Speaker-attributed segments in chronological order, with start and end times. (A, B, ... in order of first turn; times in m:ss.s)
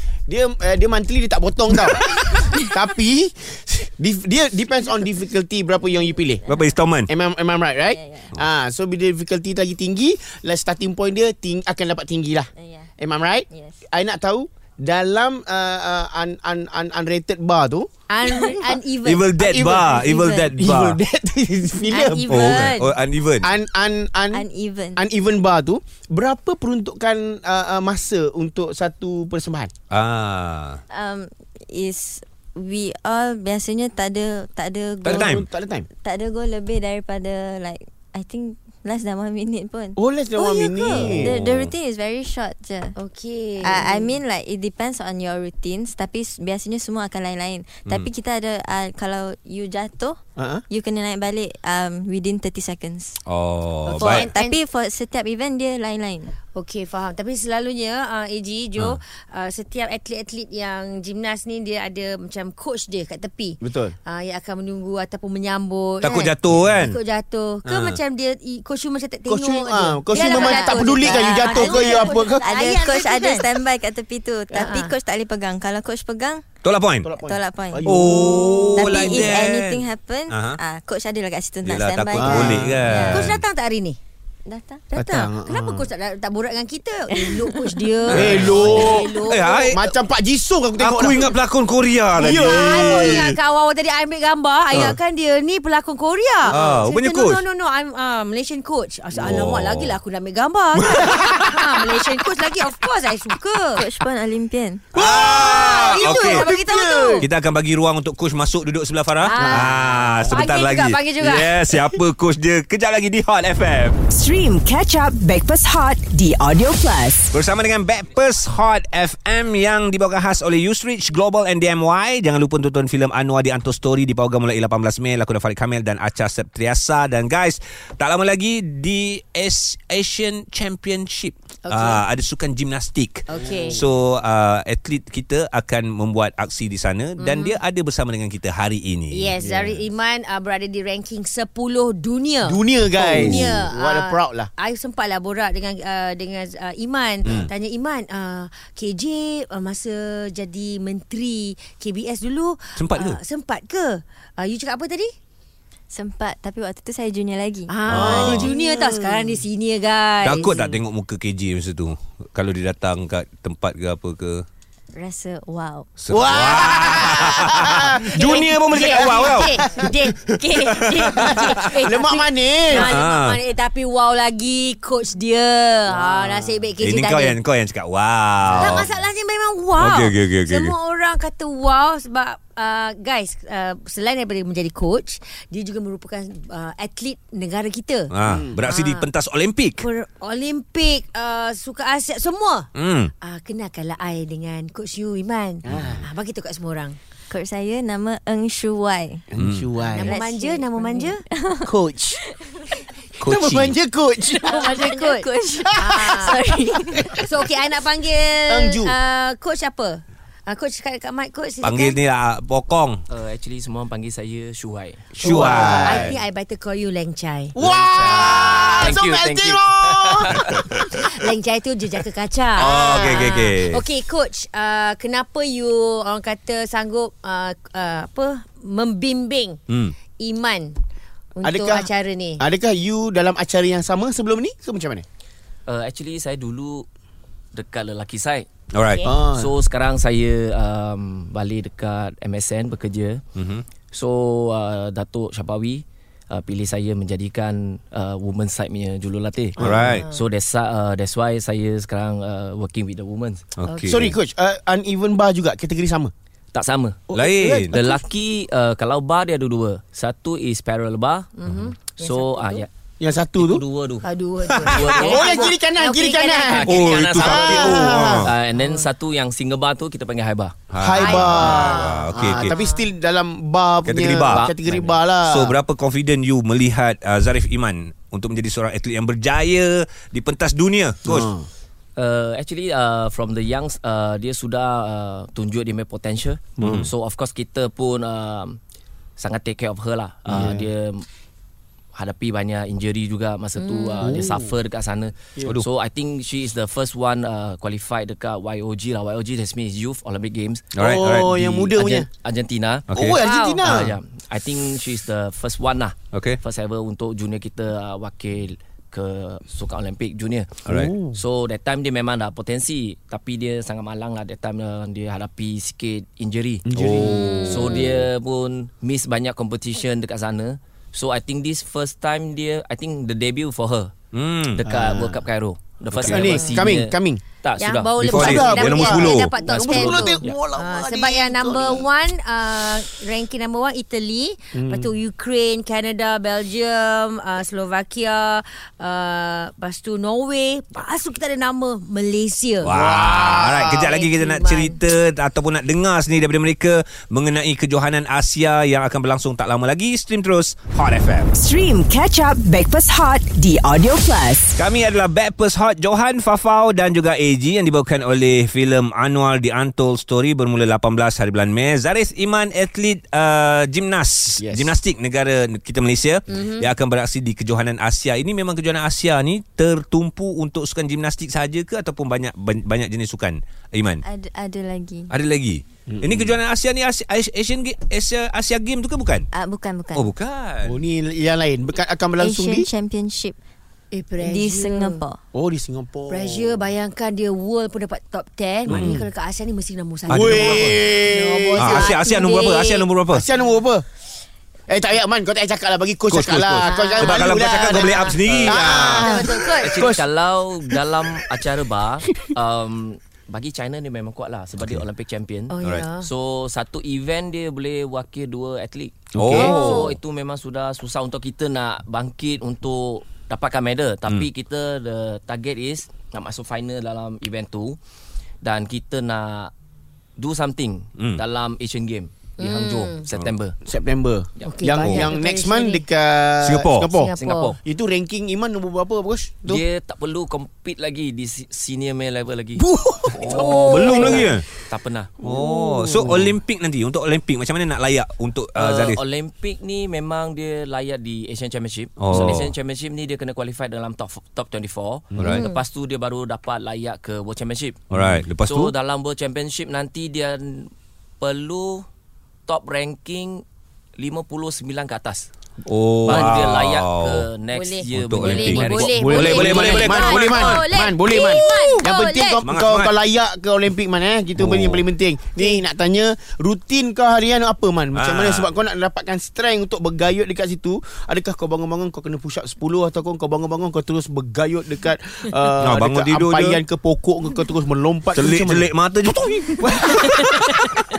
0:00.3-0:06.4 A
0:06.5-0:06.8 B
0:06.5-0:07.1 C
0:07.1-0:17.9 A
0:07.9-0:08.3 B
0:12.6-0:12.9 B
0:13.5-0:13.8 B
0:18.1-0:19.4 D
0:19.0-0:21.0 C
0:19.4-0:22.7 A
0:20.0-0:20.5 B
0:21.9-0:22.9 D
0:22.3-0:23.5 C
0:23.4-0:29.7 A
0:24.3-0:25.0 B
0:29.9-0:30.8 C
0:30.9-0:35.4 B
0:35.0-0:35.4 C
0:35.0-0:35.9 A
0:36.0-0:43.0 B
0:40.0-0:41.4 A
0:41.0-0:41.7 C
0:43.0-0:44.1 D
0:43.6-0:50.2 B
0:50.4-0:50.6 A
0:50.7-0:53.2 B
0:53.2-0:54.3 C
0:53.9-0:54.6 D
0:54.0-0:56.4 B
0:56.5-1:13.5 D
1:03.6-1:03.9 A
1:06.0-1:07.0 C
1:07.6-1:08.0 C
1:09.3-1:12.5 A
1:10.1-1:16.4 B
1:14.5-1:14.9 D
1:16.6-1:17.1 C
1:17.0-1:19.3 A
1:17.1-1:18.2 B
1:17.8-1:20.6 C
1:18.7-1:23.3 B
1:21.6-1:23.4 C
1:22.1-1:23.1 A
1:23.1-1:24.0 D
1:24.4-1:25.2 B
1:24.9-1:25.9 A
1:25.3-1:29.8 D
1:27.1-1:27.8 B
1:28.1-1:29.8 C
1:28.1-1:29.1 A
1:29.7-1:31.4 A
1:30.8-1:33.4 C
1:32.1-1:33.3 A
1:32.2-1:43.8 D
1:36.5-1:37.4 C
1:36.5-1:36.9 A
1:39.2-1:39.9 C
1:40.8-1:41.6 C
1:43.8-1:44.9 B
1:44.9-1:46.5 C
1:44.9-1:47.2 A
1:45.1-1:47.3 D
1:47.2-1:54.0 C
1:49.2-1:51.8 D
1:49.3-1:50.3 A
1:54.1-1:57.3 E
1:57.3-2:19.3 C
2:11.6-2:12.0 D
2:13.3-2:13.8 D
2:17.2-2:17.6 D
2:19.1-2:35.1 D
2:19.4-2:19.8 A
2:22.4-2:24.5 A
2:23.1-2:23.5 C
2:27.2-2:27.5 C
2:32.8-2:33.2 C
2:35.9-2:37.7 B
2:37.7-2:40.8 D
2:37.9-2:38.5 C
2:37.9-2:39.4 A
2:40.2-2:44.4 C
2:44.9-2:45.9 B
2:46.0-2:51.7 C
2:46.1-2:49.9 A
2:48.1-2:57.4 D
2:51.2-2:52.9 A
2:52.7-2:53.4 C
2:56.0-2:56.5 A
2:56.8-2:58.9 C
2:58.4-2:58.8 A
2:58.6-3:09.1 D
2:59.8-3:00.7 C
3:08.1-3:09.8 C
3:08.2-3:08.6 A
3:09.8-3:12.7 D
3:12.7-3:13.1 C
3:13.2-3:17.0 D
3:15.7-3:16.0 A
3:15.7-3:16.0 C
3:17.3-3:19.3 B
3:19.3-3:20.1 A
3:19.4-3:19.7 C
3:19.8-3:21.2 D
3:20.0-3:21.7 B
3:21.6-3:22.2 A
3:22.2-3:22.7 B
3:23.2-3:23.7 C
3:23.2-3:24.6 A
3:24.4-3:26.4 D
3:24.4-3:27.2 B
3:25.7-3:26.4 A
3:27.0-3:27.3 A
3:27.1-3:32.0 D
3:28.5-3:28.9 A
3:31.6-3:33.0 C
3:33.1-3:35.2 F
3:35.2-3:36.2 C
3:35.2-3:36.1 A
3:35.2-3:37.5 D
3:37.5-3:40.6 A
3:37.6-3:40.5 F
3:40.5-3:41.0 C
3:41.0-3:49.6 D
3:42.6-3:43.8 C
3:42.6-3:43.2 A
3:49.7-3:49.9 C
3:50.2-3:50.8 D
3:51.4-3:52.4 D
3:51.4-3:55.0 A
3:55.7-3:56.9 F
3:57.5-3:58.5 F
3:58.7-3:59.1 C
3:59.0-3:59.5 A
3:59.3-4:03.2 F
4:03.4-4:03.6 C
4:03.9-4:13.5 F
4:09.6-4:10.1 C
4:09.6-4:10.0 A
4:09.8-4:10.2 D
4:13.6-4:14.1 C
4:13.6-4:14.0 D
4:13.8-4:16.1 A
4:16.5-4:17.1 F
4:17.1-4:18.0 A
4:17.1-4:17.8 C
4:17.7-4:21.3 F
4:21.4-4:22.6 D
4:21.9-4:22.7 F
4:23.0-4:23.6 A
4:23.4-4:24.1 F
4:24.0-4:26.8 D
4:24.6-4:25.5 F
4:25.0-4:28.3 A
4:26.5-4:30.6 F
4:26.6-4:28.3 C
4:28.6-4:28.8 D
4:30.7-4:32.5 C
4:30.8-4:35.6 A
4:30.9-4:32.9 D
4:33.8-4:34.5 C
4:34.3-4:35.0 F
4:35.2-4:41.3 C
4:41.0-4:41.5 A
4:42.0-4:48.6 F
4:46.6-4:46.9 A
4:46.6-4:46.9 C
4:49.2-4:51.0 F
4:50.3-4:50.7 A
4:51.9-5:00.7 F
4:53.6-4:54.2 D
4:54.0-4:54.5 A
5:00.7-5:01.4 C
5:00.8-5:02.1 A
5:01.3-5:02.9 F
5:02.9-5:03.2 C
5:02.9-5:03.9 A
5:03.2-5:03.6 D
5:03.6-5:23.9 F
5:06.1-5:06.4 C
5:10.6-5:10.9 C
5:10.7-5:11.2 A
5:16.7-5:17.9 A
5:16.8-5:17.1 C
5:17.0-5:17.9 D
5:24.1-5:24.6 C
5:24.6-5:28.4 F
5:24.6-5:25.2 A
5:25.9-5:26.3 C
5:26.0-5:27.2 A
5:26.2-5:26.6 D
5:27.6-5:42.7 D
5:28.0-5:29.3 C
5:28.1-5:31.8 A
5:29.4-5:30.4 F
5:34.5-5:34.9 A
5:42.6-5:51.3 C
5:42.6-5:43.8 A
5:43.7-5:44.8 D
5:51.3-5:54.6 E
5:54.6-6:14.0 C
6:04.4-6:04.7 A
6:06.3-6:06.7 D
6:14.0-6:15.1 B
6:15.1-6:19.3 C
6:15.9-6:16.4 A
6:19.3-6:20.1 B
6:19.9-6:20.8 C
6:20.6-6:22.7 A
6:22.2-6:23.4 B
6:23.9-6:25.0 D
6:24.2-6:25.2 B
6:25.3-6:26.6 A
6:26.1-6:32.9 D
6:28.7-6:29.0 C
6:28.7-6:29.0 A
6:30.1-6:30.6 C
6:30.1-6:31.9 A
6:31.6-6:33.2 C
6:33.1-6:33.8 A
6:34.7-6:40.0 A
6:36.1-6:39.1 C
6:36.6-6:39.9 D
6:38.2-6:38.6 F
6:39.6-6:57.8 F
6:45.5-6:46.1 D
6:49.1-6:49.6 A
6:49.2-6:49.9 C
6:49.3-6:49.9 D
6:58.4-6:59.5 F
7:00.2-7:03.6 F
7:01.0-7:01.2 C
7:02.4-7:03.0 D
7:03.6-7:07.1 A
7:04.4-7:04.7 F
7:04.4-7:05.8 D
7:06.4-7:06.9 C
7:06.9-7:07.6 D
7:07.2-7:07.6 F
7:07.6-7:09.6 A
7:09.4-7:15.2 F
7:12.6-7:14.3 A
7:13.2-7:14.4 C
7:13.3-7:14.3 D
7:15.2-7:19.0 C
7:15.2-7:16.3 A
7:18.6-7:31.8 F
7:22.0-7:22.5 C
7:25.2-7:25.4 C
7:25.2-7:25.6 D
7:27.9-7:28.7 C
7:32.5-7:33.4 F
7:34.0-7:35.3 F
7:35.6-7:37.3 C
7:36.0-7:39.8 F
7:37.5-7:42.4 D
7:37.9-7:40.6 C
7:38.8-7:58.7 A
7:42.4-7:42.9 C
7:44.4-7:44.8 C
7:47.9-7:48.5 C
7:55.6-7:56.6 C
7:58.1-7:59.9 C
7:59.6-8:00.3 A
8:00.1-8:00.4 D